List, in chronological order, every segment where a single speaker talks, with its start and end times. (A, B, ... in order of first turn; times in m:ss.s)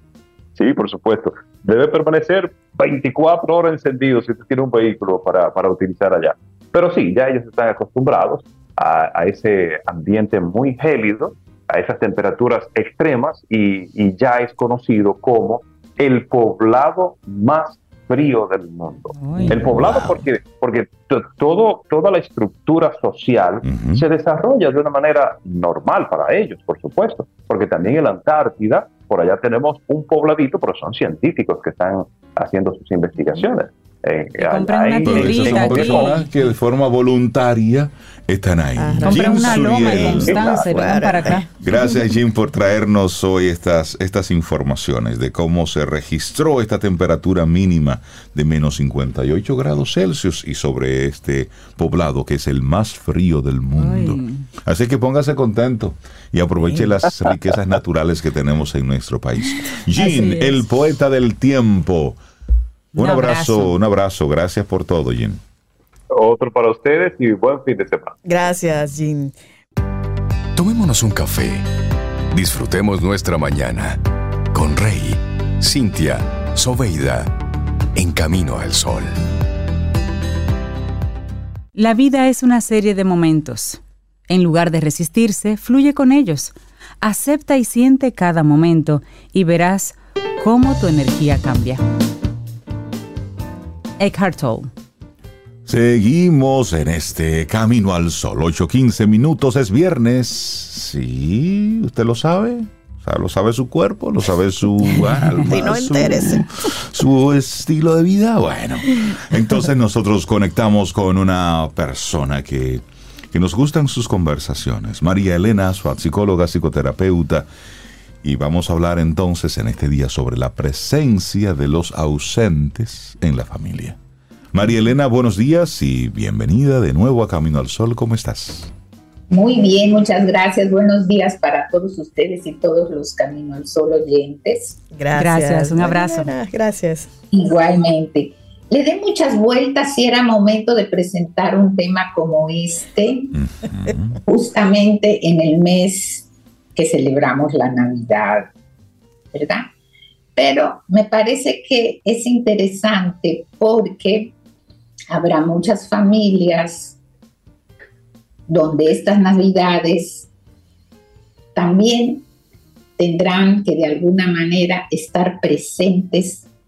0:00.6-0:36.2 A
0:19.2-0:19.6 B
0:19.4-0:20.2 C
0:23.6-0:24.0 C
0:34.4-0:36.2 B
0:35.0-0:40.4 C
0:38.8-0:41.4 D
0:39.0-0:41.5 B
0:41.6-1:02.2 C
0:53.8-0:54.4 B
1:00.0-1:00.6 B
1:02.9-1:03.8 B
1:03.0-1:05.4 C
1:06.1-1:08.2 A
1:08.2-1:09.3 D
1:10.6-1:11.7 E
1:12.3-1:17.4 E
1:18.0-1:19.2 E
1:21.7-1:31.8 B
1:34.0-1:34.7 B
1:35.7-1:57.5 C
1:45.5-1:46.7 D
1:58.2-2:04.0 C
2:04.5-2:08.7 C
2:09.3-2:14.8 F
2:14.9-2:17.1 D
2:15.2-2:16.3 B
2:17.3-2:23.4 F
2:23.4-2:24.2 C
2:24.3-2:28.5 F
2:29.3-2:29.7 F
2:30.4-2:34.3 F
2:35.1-2:37.0 F
2:38.5-2:40.3 F
2:41.6-2:42.3 F
2:43.0-2:46.5 F